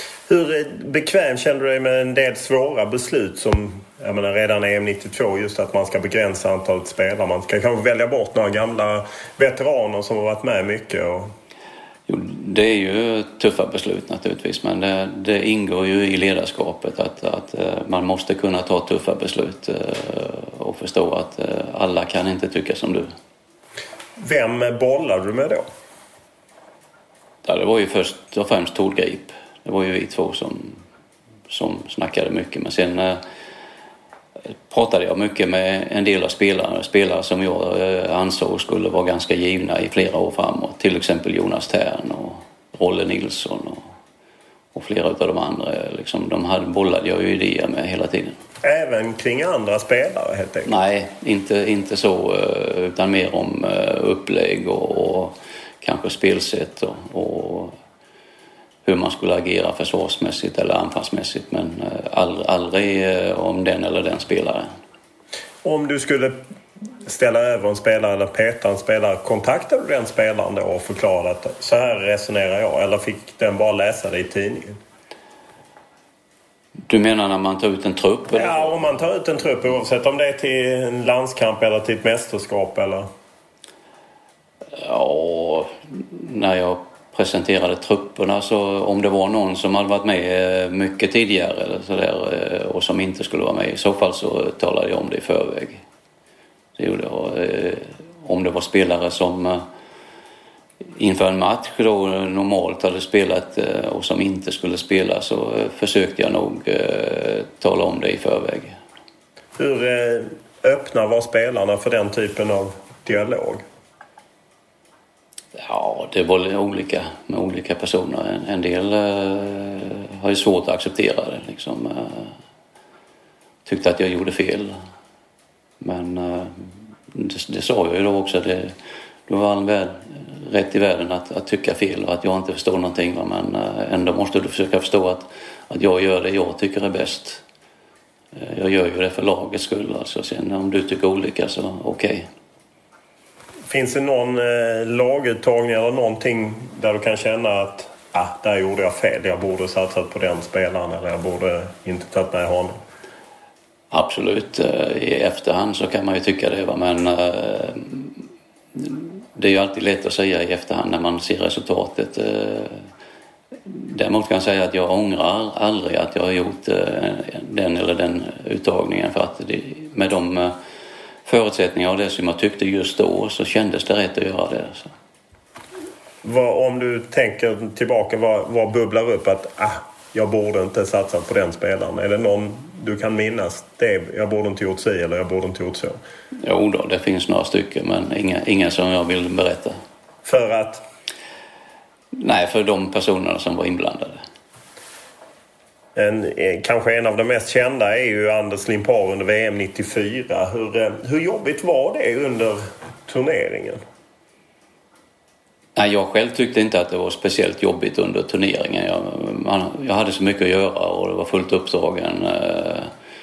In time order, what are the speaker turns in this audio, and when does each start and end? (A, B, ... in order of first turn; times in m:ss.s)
0:00.3-0:11.3 A
0:12.1-0:23.1 B
0:24.2-0:25.6 A
0:27.4-0:30.8 B
0:31.5-0:33.2 B
0:34.7-0:43.8 B
0:44.7-0:48.4 B
0:48.6-0:50.7 A
0:50.6-0:57.7 B
0:58.8-1:04.7 B
1:05.6-1:06.4 A
1:07.0-1:14.8 A
1:16.9-1:18.9 B
1:18.3-1:23.1 A
1:24.8-1:35.8 B
1:36.8-1:39.6 B
1:41.0-1:48.7 B
1:49.6-1:53.6 A
1:55.6-2:02.3 B
2:03.6-2:04.8 B
2:05.8-2:08.7 B
2:09.3-2:17.4 B
2:18.3-2:22.3 B
2:23.7-2:32.8 A
2:33.9-2:38.1 B
2:38.7-2:42.8 B
2:43.6-2:50.5 B
2:51.2-2:54.9 B
2:56.2-3:06.0 A
3:06.4-3:09.8 B
3:10.2-3:10.8 A
3:12.2-3:14.2 B
3:16.0-3:23.8 A
3:25.8-3:32.9 B